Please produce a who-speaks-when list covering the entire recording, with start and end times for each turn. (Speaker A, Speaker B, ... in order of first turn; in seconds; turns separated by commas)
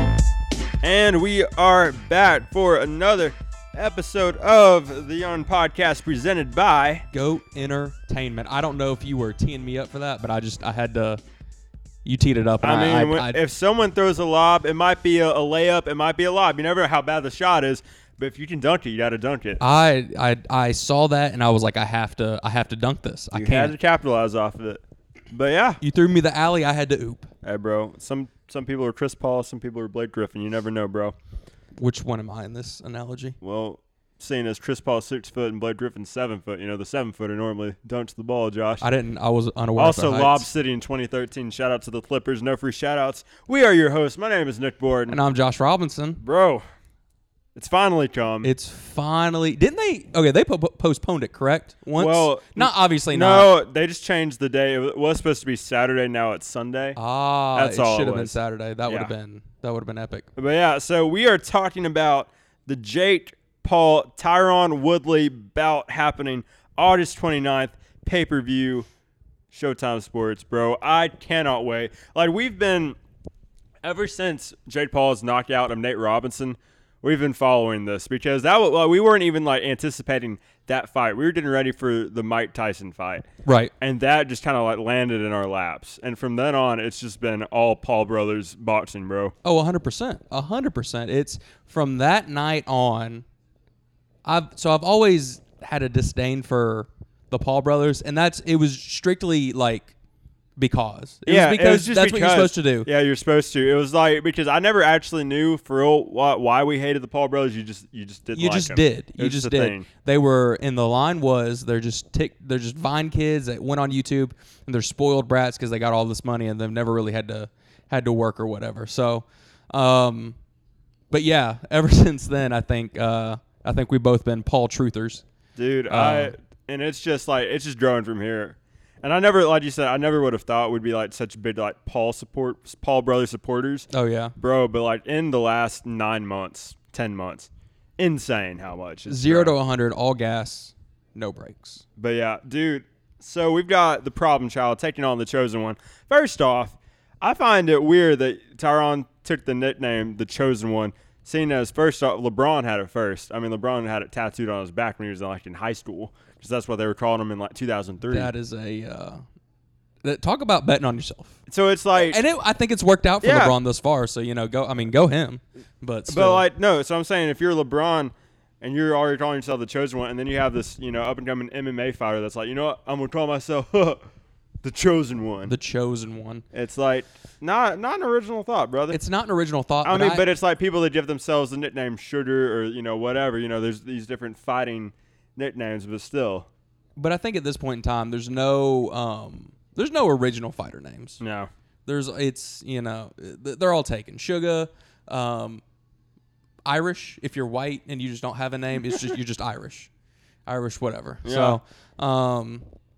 Speaker A: 0.8-7.1, Speaker B: 7.1-11.2, Speaker B: 12.1-13.4, Speaker A: 12.6-19.6, Speaker B: 19.6-23.7, Speaker A: 23.3-25.8, Speaker B: 25.8-27.3, Speaker A: 27.4-31.1, Speaker B: 31.8-33.4, Speaker A: 33.4-38.9, Speaker B: 38.8-40.5, Speaker A: 39.8-45.2, Speaker B: 45.1-46.2, Speaker A: 46.2-46.6, Speaker A: 47.5-48.5, Speaker B: 48.4-53.5, Speaker A: 52.0-57.0, Speaker B: 57.0-60.3, Speaker A: 57.5-59.1, Speaker A: 60.4-68.9, Speaker A: 69.5-73.0, Speaker A: 73.8-83.3, Speaker B: 83.5-83.7, Speaker A: 83.8-89.3, Speaker B: 89.4-93.3, Speaker B: 94.2-99.9, Speaker B: 100.6-102.9, Speaker A: 101.3-109.9, Speaker B: 108.3-120.4, Speaker B: 121.1-125.2, Speaker A: 125.6-139.6, Speaker B: 125.9-126.3, Speaker B: 133.9-134.3, Speaker B: 139.1-141.8, Speaker A: 142.0-158.3, Speaker B: 158.1-159.2, Speaker B: 160.0-161.4, Speaker A: 161.5-162.2, Speaker B: 161.9-166.4, Speaker A: 163.2-163.6, Speaker A: 166.1-174.0, Speaker A: 174.6-175.5, Speaker B: 175.5-176.4, Speaker A: 176.5-179.0, Speaker B: 178.9-180.3, Speaker A: 179.8-186.5, Speaker B: 187.0-191.2, Speaker A: 191.2-191.5, Speaker B: 191.9-195.6, Speaker B: 196.7-199.9, Speaker B: 200.5-202.7, Speaker A: 201.2-201.6